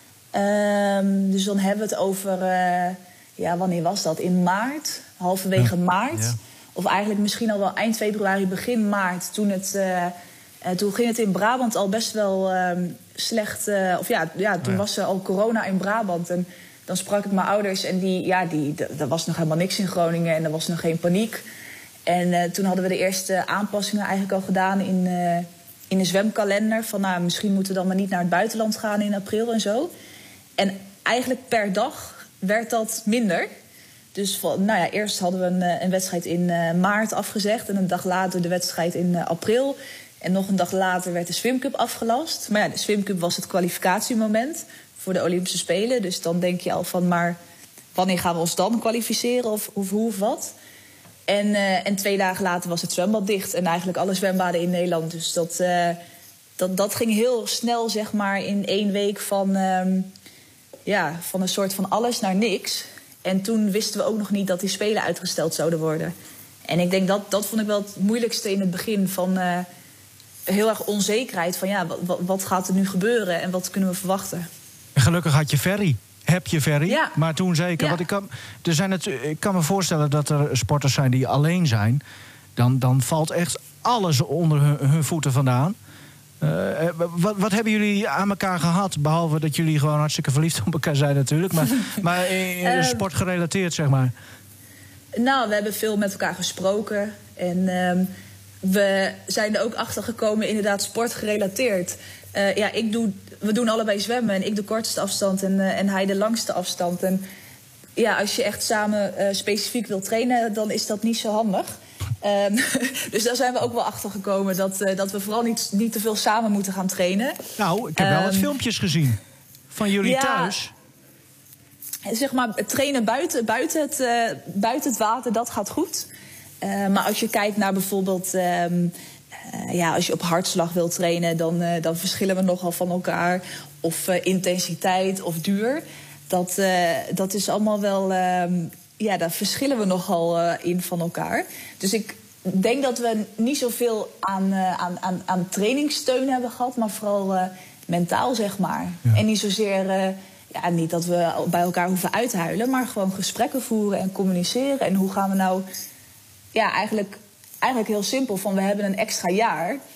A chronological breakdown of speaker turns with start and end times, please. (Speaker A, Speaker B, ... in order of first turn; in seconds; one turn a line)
Speaker A: 0.3-21.4
Speaker A: 22.1-29.9
Speaker A: 30.6-33.5
Speaker A: 34.1-47.4
Speaker A: 47.9-50.5
Speaker A: 51.3-56.0
Speaker A: 56.6-60.1
Speaker A: 60.9-66.1
Speaker A: 66.7-69.7
Speaker A: 70.5-74.5
Speaker B: 75.0-82.0
Speaker A: 76.9-77.2
Speaker B: 82.6-85.7
Speaker B: 86.4-94.1
Speaker A: 92.6-93.0
Speaker A: 95.1-98.1
Speaker A: 98.6-107.2
Speaker A: 108.0-111.7
Speaker A: 112.2-117.4
Speaker B: 117.6-119.2
Speaker A: 118.0-118.5
Speaker B: 119.7-120.7
Speaker A: 120.0-120.6
Speaker A: 122.1-126.1
Speaker A: 126.6-128.9
Speaker A: 129.4-155.7
Speaker A: 156.5-159.8